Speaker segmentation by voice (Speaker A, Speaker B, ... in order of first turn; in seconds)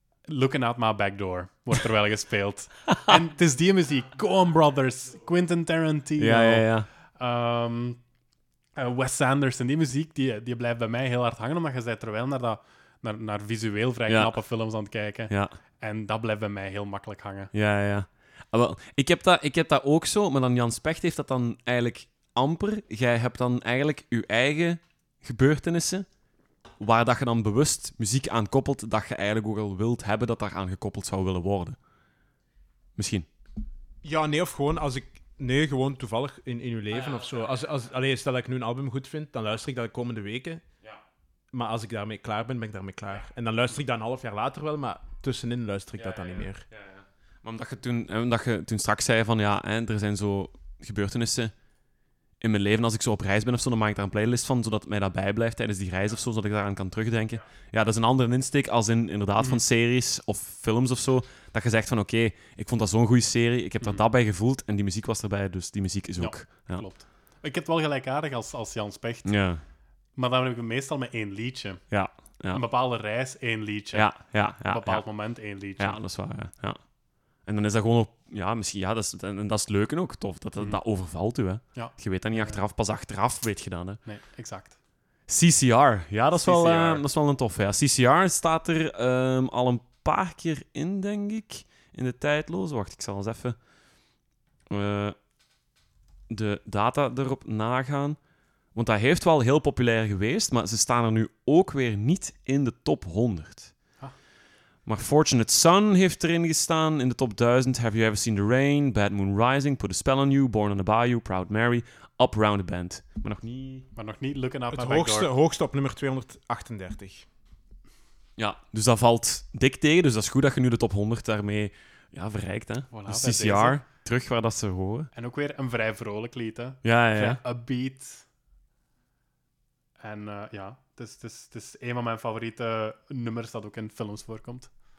Speaker A: 0.3-8.0, 8.8-17.5, 63.8-64.0, 66.2-69.6, 70.1-76.0, 80.5-80.8, 81.7-82.6, 84.0-84.8, 86.4-87.0, 114.0-115.3, 122.9-123.8, 125.1-128.3, 130.0-134.7
Speaker B: 6.2-6.9, 14.1-14.6, 15.3-15.5, 17.5-26.1, 26.8-31.8, 33.0-33.3, 36.9-37.7, 46.0-51.5, 52.4-66.9, 69.2-69.6, 71.9-72.6, 73.9-76.8, 77.4-84.0, 85.3-93.6, 94.7-95.2, 96.3-98.2, 98.7-103.7, 104.9-113.9, 118.4-125.1, 126.8-127.4
Speaker C: 34.0-40.6, 41.5-46.6, 114.7-117.3